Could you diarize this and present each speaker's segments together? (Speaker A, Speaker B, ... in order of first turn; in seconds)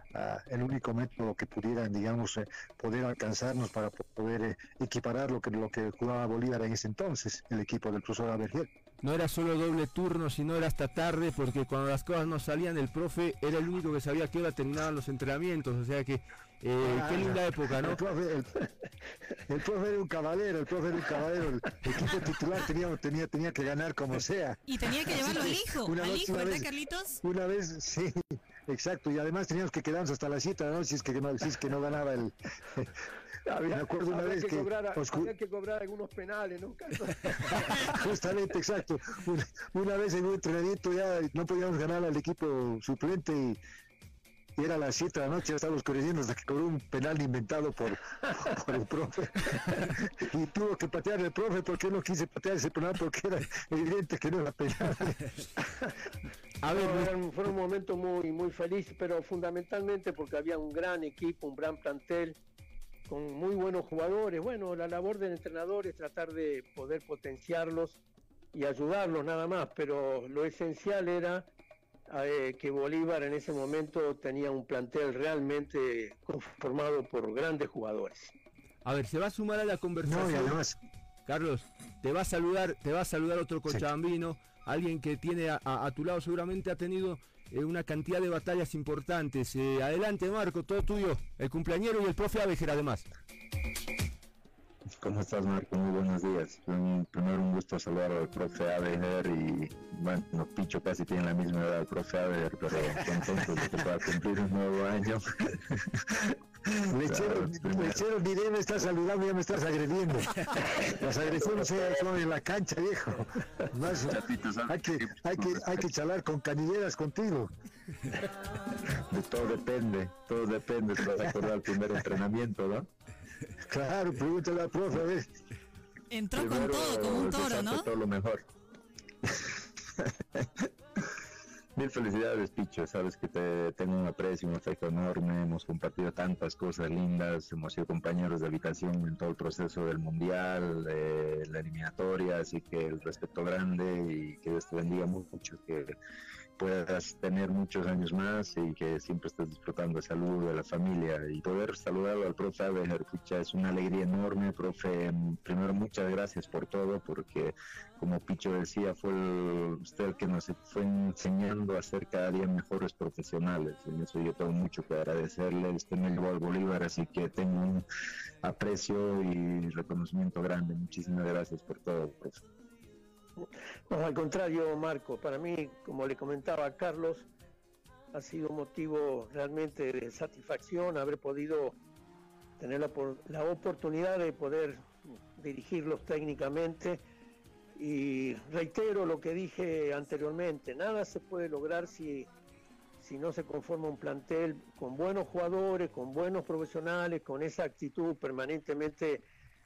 Speaker A: 0.1-8.7, 16.8-18.5, 19.5-26.7, 27.2-32.9, 33.6-35.3, 37.8-43.6, 44.6-55.2, 80.0-80.8, 106.9-117.5, 123.7-125.3
Speaker B: 9.0-18.0, 56.6-57.1, 78.8-80.6, 81.3-93.1
Speaker C: 24.7-27.2, 126.1-127.9
Speaker D: 33.5-38.0, 56.7-62.4, 63.1-68.0, 68.5-71.5, 72.1-78.3, 173.9-177.3, 178.1-181.8, 182.6-187.0, 187.8-192.3, 193.0-199.2
Speaker E: 95.0-105.8, 106.9-108.0, 110.8-112.1, 114.0-115.8, 119.1-122.9, 126.4-128.5, 131.8-145.9, 146.6-167.8, 168.4-172.4